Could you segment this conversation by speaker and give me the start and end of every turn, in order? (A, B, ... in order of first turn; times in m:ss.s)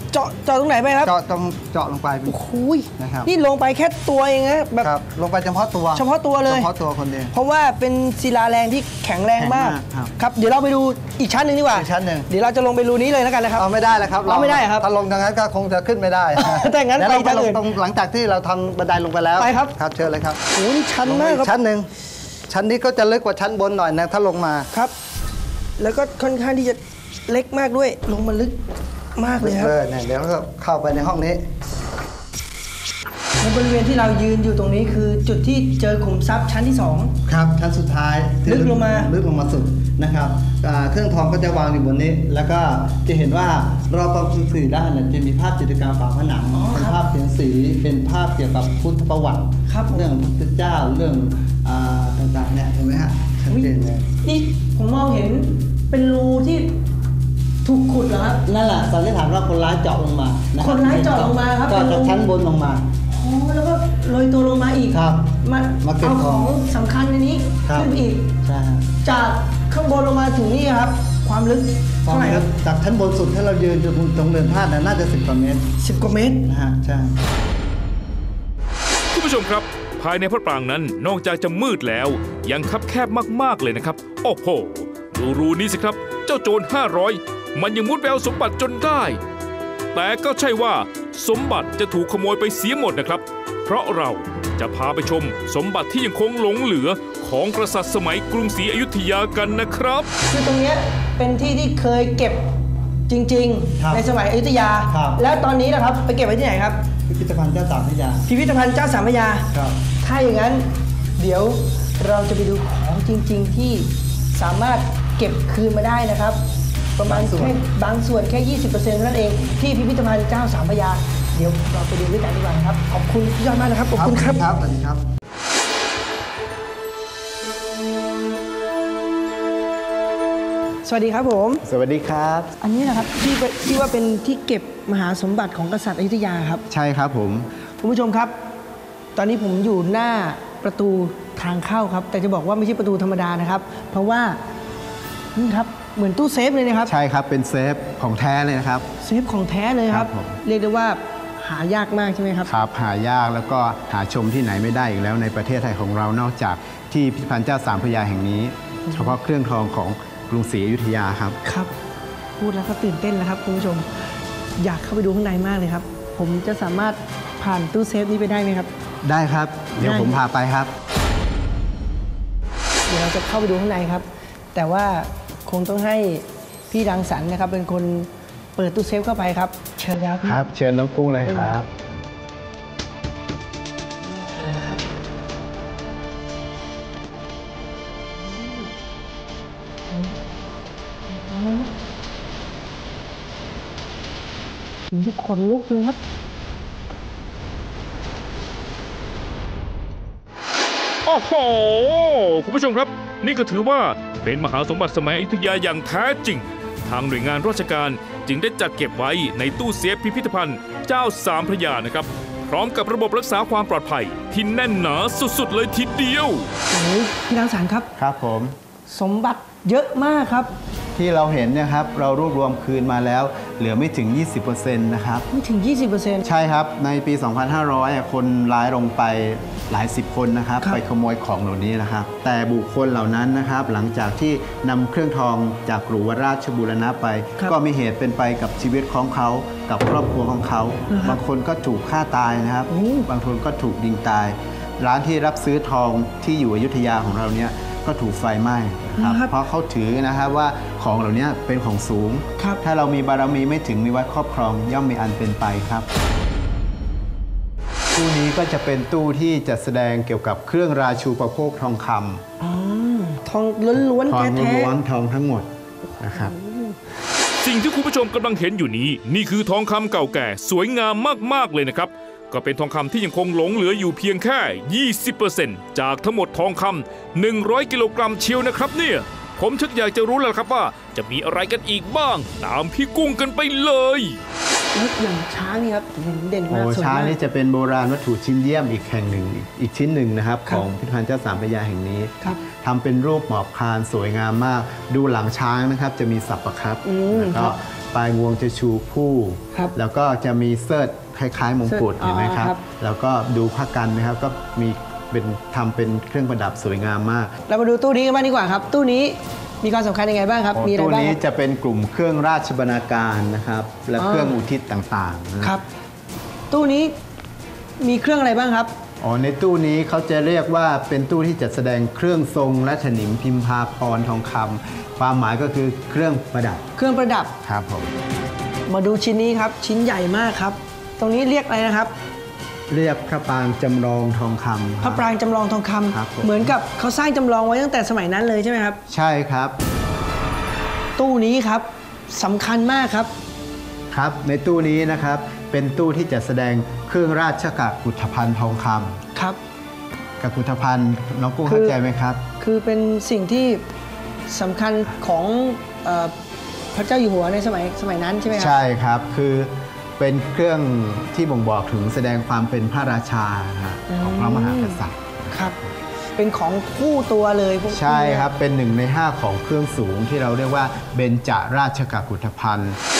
0:00.1-0:01.1 A
0:01.0-0:02.3 B
0:02.2-0:04.9 A
0:03.0-0:03.3 B
0:04.8-0:07.3 B
0:05.9-0:06.7 A
0:07.3-0:13.6 A
0:09.4-0:10.1 B
0:11.7-0:12.3 B
0:13.6-0:20.4 B
0:14.2-0:14.9 A
0:16.4-0:17.6 A
0:19.4-0:19.7 A
0:20.5-0:21.5 A
0:21.0-0:21.9 B
0:22.5-0:24.7 B
0:25.8-0:28.6 A
0:29.2-0:29.7 A
0:29.4-0:31.4 B
0:33.4-0:37.1 A
0:37.2-0:54.0 B
0:38.4-0:39.1 A
0:46.5-0:47.0 A
0:49.7-0:50.1 A
0:53.5-0:56.7 A
0:57.6-0:58.4 A
0:58.4-1:02.8 B
1:00.6-1:02.2 A
1:03.1-1:08.3 A
1:04.9-1:06.5 B
1:07.6-1:07.9 B
1:08.4-1:08.9 B
1:09.0-1:12.4 A
1:12.0-1:15.7 B
1:15.8-1:16.5 A
1:16.4-1:17.2 B
1:19.1-1:29.2 C
1:29.9-1:40.1 C
1:40.3-1:42.4 A
1:43.1-1:46.8 A
1:43.8-1:44.0 B
1:44.9-1:45.2 B
1:47.1-1:48.2 B
1:48.2-1:49.5 A
1:49.5-1:49.8 B
1:50.0-1:56.4 A
1:57.0-2:04.4 A
1:57.0-1:57.6 B
2:03.9-2:05.0 B
2:10.8-2:11.6 A
2:11.6-2:12.5 D
2:12.6-2:16.6 A
2:16.7-2:17.5 D
2:17.8-2:18.3 A
2:19.1-2:24.4 A
2:25.3-2:26.9 A
2:26.9-2:28.9 D
2:29.0-2:32.5 A
2:29.9-2:30.4 D
2:32.5-2:41.4 D
2:41.4-2:41.7 A
2:42.4-2:43.9 A
2:44.6-2:48.7 A
2:49.0-2:50.7 D
2:49.8-2:50.2 A
2:52.9-3:00.4 A
3:00.2-3:01.7 D
3:01.2-3:01.6 A
3:11.3-3:11.6 A
3:14.9-3:16.0 A
3:21.0-3:36.5 C
3:36.7-3:37.9 A
3:38.0-3:38.5 D
3:38.9-3:40.5 A
3:40.9-3:45.2 D
3:45.3-3:46.3 A
3:46.2-4:15.9 D
4:00.9-4:01.2 A
4:02.7-4:03.1 A
4:09.0-4:09.3 A
4:17.9-4:22.2 D
4:22.4-4:24.7 A
4:24.0-4:26.3 D
4:25.9-4:26.8 A
4:27.4-4:44.2 C
4:44.7-4:47.2 A
4:46.5-5:07.3 D
4:56.8-4:57.5 A
5:01.7-5:02.6 A
5:07.5-5:11.2 A
5:10.5-5:15.5 D
5:14.0-5:14.4 A
5:16.5-5:16.9 A
5:17.8-5:18.7 A
5:19.0-5:26.6 D
5:26.8-5:27.3 A
5:27.4-5:27.9 D
5:28.6-5:31.9 A
5:32.7-5:35.1 D
5:34.8-5:38.8 A
5:35.9-5:36.6 D
5:38.9-5:39.6 D
5:41.0-5:43.1 A
5:43.9-5:49.0 D
5:50.2-5:52.2 D
5:51.4-5:51.8 A
5:52.4-5:53.6 A
5:54.3-5:56.1 A
5:56.7-5:58.6 A
5:58.3-6:05.7 D
6:03.9-6:04.8 A
6:05.3-6:05.6 A
6:06.2-6:08.3 A
6:07.7-6:12.8 D